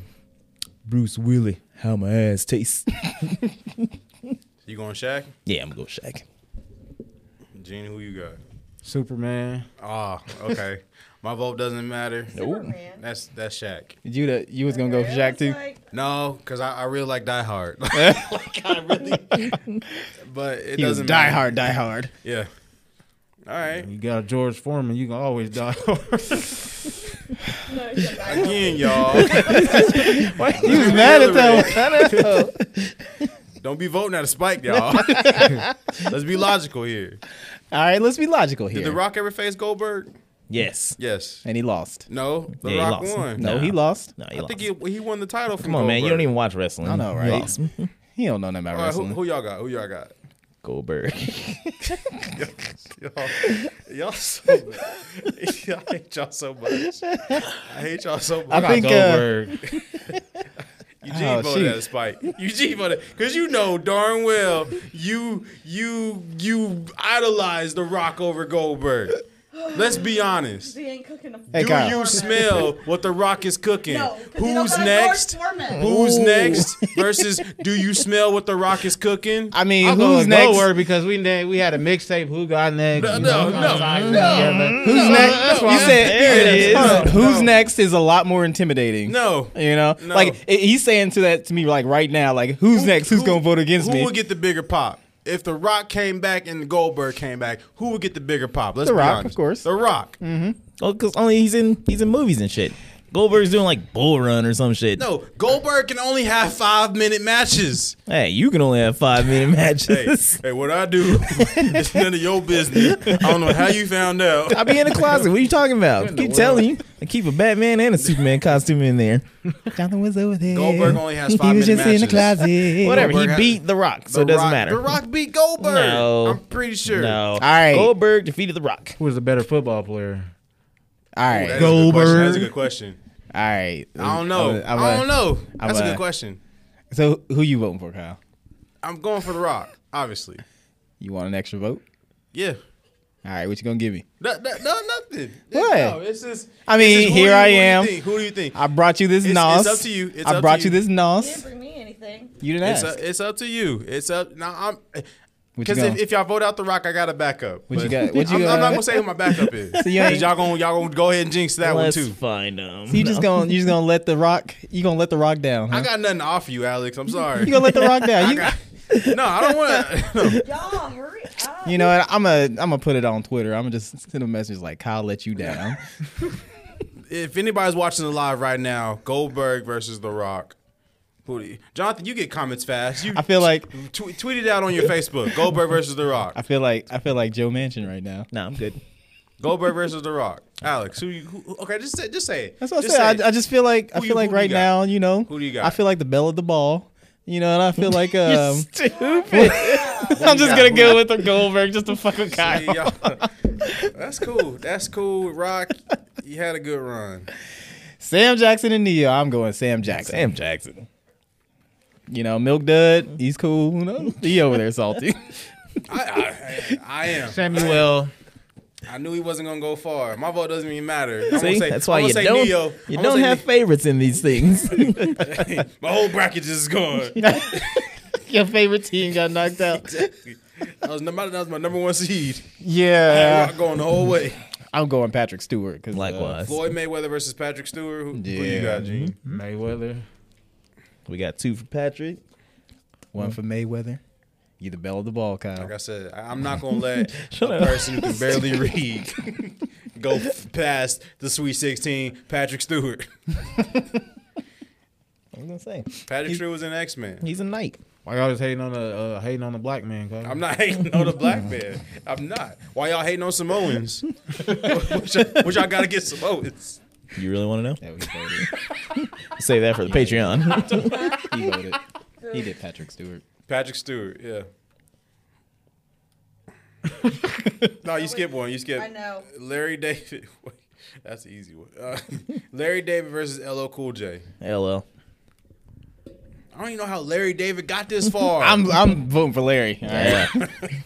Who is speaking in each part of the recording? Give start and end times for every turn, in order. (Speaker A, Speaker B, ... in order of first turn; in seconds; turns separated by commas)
Speaker A: 0.8-3.4, Speaker B: 4.6-5.3, Speaker A: 5.5-6.2, Speaker B: 7.5-8.4, Speaker C: 8.8-9.7, Speaker B: 9.8-12.4, Speaker D: 12.3-13.0, Speaker A: 12.3-12.7, Speaker B: 13.0-13.9, Speaker E: 14.0-15.6, Speaker D: 14.7-15.8, Speaker B: 15.9-19.6, Speaker E: 17.9-18.4, Speaker B: 20.2-21.5, Speaker E: 20.8-22.1, Speaker B: 22.2-22.5, Speaker B: 23.4-23.9, Speaker C: 23.8-26.8, Speaker D: 27.6-30.2, Speaker B: 28.2-31.9, Speaker A: 29.1-33.1, Speaker E: 29.4-32.3, Speaker B: 33.6-37.2, Speaker E: 34.9-35.7, Speaker E: 37.7-39.0, Speaker B: 38.7-40.1, Speaker A: 40.5-41.0, Speaker B: 41.0-41.4, Speaker E: 41.4-42.0, Speaker B: 42.1-43.5, Speaker A: 42.6-44.7, Speaker E: 43.4-44.1, Speaker B: 44.3-46.3, Speaker A: 45.6-47.9, Speaker E: 46.8-47.5, Speaker E: 48.1-49.2, Speaker B: 48.7-50.1, Speaker A: 50.6-51.9, Speaker B: 52.2-58.9, Speaker E: 57.1-57.4, Speaker E: 58.5-59.3, Speaker C: 58.5-59.6, Speaker B: 61.0-69.2, Speaker E: 61.1-61.8, Speaker D: 69.5-72.8, Speaker B: 69.7-70.7, Speaker E: 71.5-72.1, Speaker B: 71.5-79.6, Speaker D: 73.8-75.9, Speaker A: 75.7-76.7, Speaker E: 79.5-80.7, Speaker C: 79.8-87.1, Speaker B: 82.9-84.3, Speaker A: 83.4-87.1, Speaker D: 83.7-85.2, Speaker E: 84.8-94.1, Speaker B: 84.8-87.5, Speaker B: 89.0-90.4, Speaker B: 92.7-100.1, Speaker E: 98.8-99.6, Speaker E: 100.2-100.6, Speaker A: 100.8-105.0, Speaker B: 105.0-108.0, Speaker A: 108.1-110.4, Speaker B: 109.8-115.0, Speaker E: 111.5-111.8, Speaker E: 112.9-113.4, Speaker A: 114.5-119.2, Speaker C: 116.0-116.7, Speaker E: 119.7-123.2, Speaker B: 120.5-127.2, Speaker A: 122.8-124.8, Speaker A: 125.6-129.0, Speaker E: 127.4-127.9, Speaker C: 129.0-130.3, Speaker E: 131.1-132.5, Speaker B: 131.2-133.0, Speaker A: 131.5-132.5, Speaker E: 133.3-136.0, Speaker B: 134.0-136.4, Speaker E: 136.9-138.2, Speaker B: 138.8-140.4, Speaker E: 141.0-141.8, Speaker B: 142.3-142.6, Speaker E: 143.2-144.0, Speaker B: 144.2-148.6, Speaker E: 145.5-146.0, Speaker E: 146.7-148.0, Speaker E: 148.5-151.4, Speaker B: 149.2-150.8, Speaker D: 151.2-152.4, Speaker E: 152.4-152.9, Speaker B: 152.6-155.1, Speaker E: 155.6-156.0, Speaker B: 155.6-162.1, Speaker E: 157.7-159.1, Speaker E: 159.7-160.4, Speaker A: 161.6-163.5, Speaker E: 162.9-165.9, Speaker B: 165.7-170.5, Speaker E: 167.4-168.5, Speaker A: 168.9-170.4, Speaker D: 170.3-172.0, Speaker E: 171.6-175.8, Speaker B: 177.1-180.5, Speaker B: 181.2-186.4, Speaker E: 183.1-183.7, Speaker E: 186.3-188.3, Speaker A: 188.3-188.8, Speaker B: 189.4-193.2, Speaker E: 192.6-198.7, Speaker B: 193.9-194.7, Speaker B: 195.3-195.8, Speaker A: 198.1-200.1, Speaker D: 198.8-200.4, Speaker E: 199.3-203.7, Speaker B: 200.1-201.1, Speaker B: 202.3-203.2, Speaker B: 203.9-207.3, Speaker E: 208.0-210.3, Speaker A: 210.0-210.9, Speaker E: 212.1-215.2, Speaker B: 215.9-217.9, Speaker C: 217.2-218.1, Speaker B: 218.9-223.4, Speaker A: 221.3-225.3, Speaker B: 225.1-227.8, Speaker E: 227.2-229.9, Speaker B: 229.7-232.4, Speaker E: 232.6-233.6, Speaker B: 233.1-234.4, Speaker E: 234.7-236.4, Speaker A: 235.9-236.6, Speaker B: 236.4-239.2, Speaker E: 238.1-239.1, Speaker C: 239.2-240.0, Speaker A: 241.1-242.2, Speaker E: 243.1-244.0, Speaker E: 244.6-245.7, Speaker B: 245.6-253.1, Speaker A: 246.9-248.8, Speaker A: 255.3-256.4, Speaker B: 256.1-257.2, Speaker A: 257.2-257.8, Speaker C: 258.0-260.4, Speaker B: 260.2-266.8, Speaker A: 267.1-267.8, Speaker E: 267.8-268.5, Speaker A: 268.8-271.1, Speaker E: 269.8-271.8, Speaker D: 270.4-271.4, Speaker D: 272.2-272.5, Speaker E: 272.3-273.2, Speaker B: 273.5-274.5, Speaker B: 277.8-284.2, Speaker D: 277.9-279.3, Speaker A: 284.4-284.8, Speaker B: 286.5-288.6, Speaker E: 288.4-290.4, Speaker A: 289.9-290.4